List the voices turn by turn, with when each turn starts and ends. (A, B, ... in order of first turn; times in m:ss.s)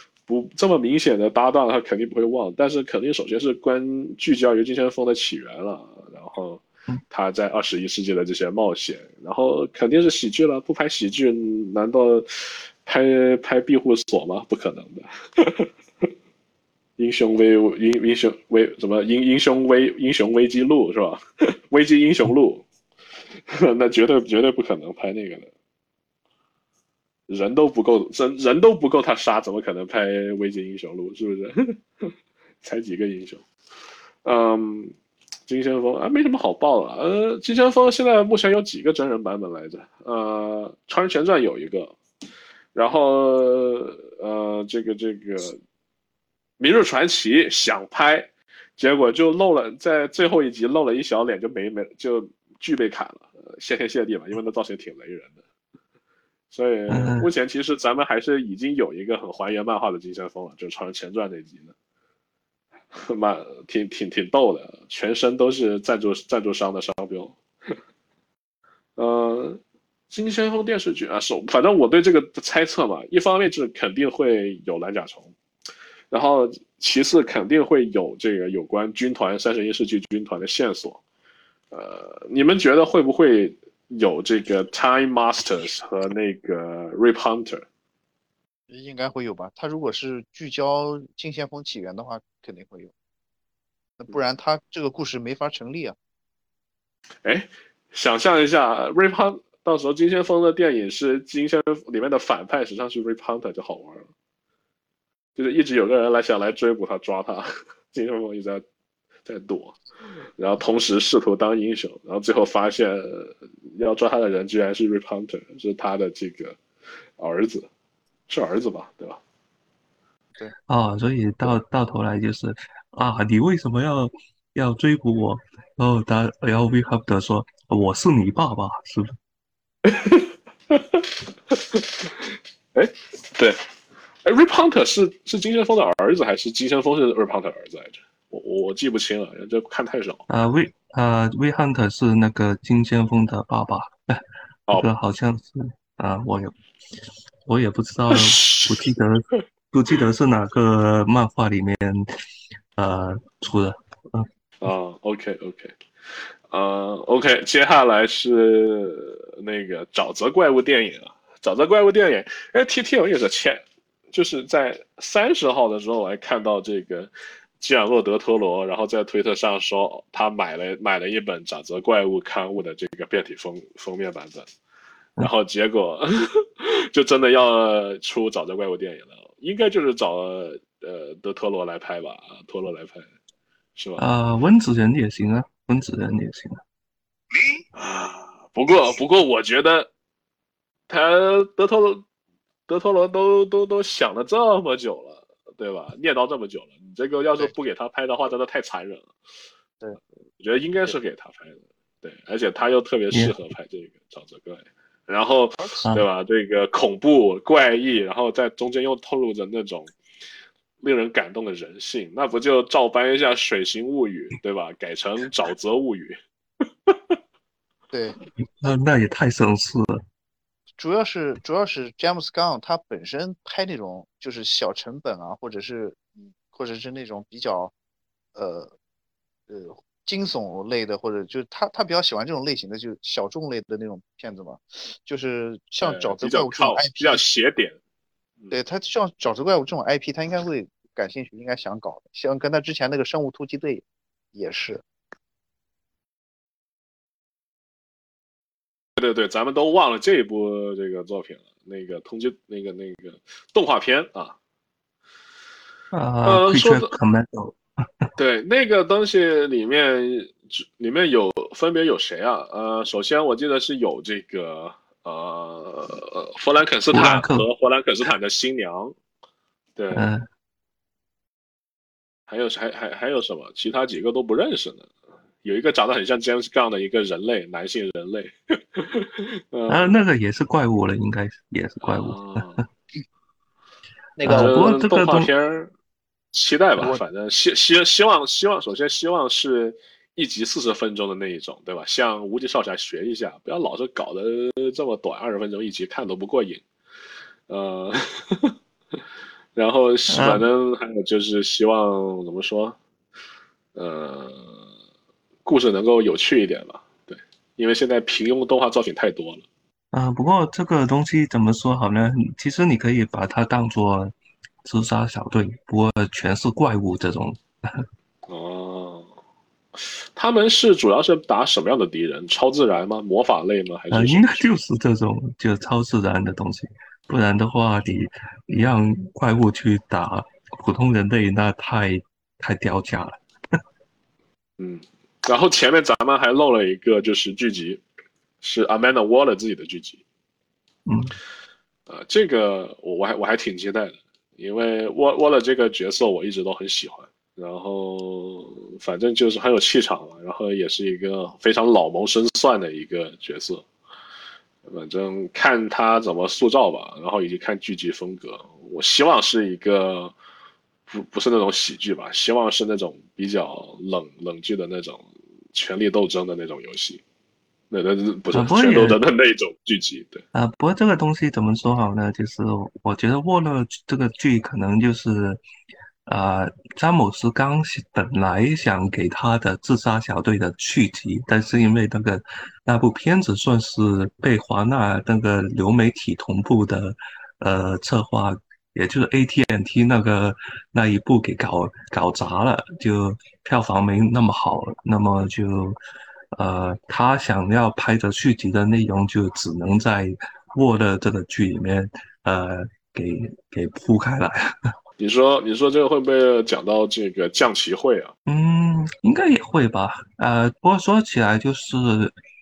0:00.3-0:16.1 A
0:17.0-0:22.6 A
0:23.5-0:25.5 A
0:27.3-0:33.4 A
0:34.2-0:34.9 A
0:35.5-0:42.0 A
0:42.8-0:45.6 A
0:46.6-0:55.4 A
0:56.5-1:01.7 A
0:56.9-0:57.3 B
1:02.9-1:07.7 A
1:09.0-1:15.3 A
1:16.1-1:21.0 A
1:21.7-1:27.6 A
1:28.7-1:32.9 C
1:34.0-1:36.0 C
1:37.2-1:44.1 A
1:45.4-1:48.6 A
1:49.3-1:49.8 A
1:50.4-1:56.6 A
1:57.2-1:57.7 A
1:58.3-1:59.2 A
2:00.7-2:09.2 B
2:09.8-2:13.6 A
2:14.2-2:20.2 A
2:20.3-2:26.6 B
2:27.4-2:32.1 B
2:28.1-2:28.8 A
2:32.8-2:34.3 B
2:34.6-2:54.5 A
2:55.2-3:03.1 A
3:03.8-3:04.0 A
3:04.0-3:06.6 B
3:07.8-3:09.9 A
3:10.9-3:12.0 A
3:12.7-3:19.1 A
3:20.4-3:30.0 A
3:30.8-3:36.2 A
3:36.9-3:37.2 A
3:37.9-3:38.2 C
3:38.6-3:40.0 B
3:40.8-3:46.0 C
3:46.5-3:47.7 C
3:48.4-3:48.7 C
3:49.5-3:57.2 C
3:55.8-3:57.8 A
3:58.5-4:04.8 C
4:09.0-4:14.4 A
4:15.9-4:18.1 B
4:16.2-4:16.9 A
4:18.2-4:29.0 A
4:26.9-4:27.5 B
4:29.8-4:30.1 A
4:29.9-4:30.3 B
4:32.3-4:34.9 A
4:35.4-4:40.0 A
4:39.7-4:42.6 B
4:41.8-4:42.6 A
4:44.2-4:44.8 C
4:44.2-4:45.3 B
4:44.2-4:45.7 A
4:46.3-4:56.6 A
4:57.5-4:58.6 A
4:59.6-5:02.8 A
5:00.1-5:00.5 B
5:03.8-5:04.6 A
5:05.4-5:09.4 A
5:09.9-5:17.9 B
5:18.3-5:19.1 A
5:19.8-5:24.4 A
5:23.9-5:33.6 B
5:34.6-5:37.8 A
5:38.4-5:40.0 A
5:40.9-5:41.2 B
5:41.9-5:53.6 A
5:54.7-6:00.1 A
6:00.9-6:07.0 A
6:07.7-6:10.2 A
6:08.3-6:09.0 B
6:10.3-6:15.4 B
6:16.1-6:35.8 B
6:36.3-6:44.7 B
6:45.0-6:48.1 A
6:48.3-6:52.2 B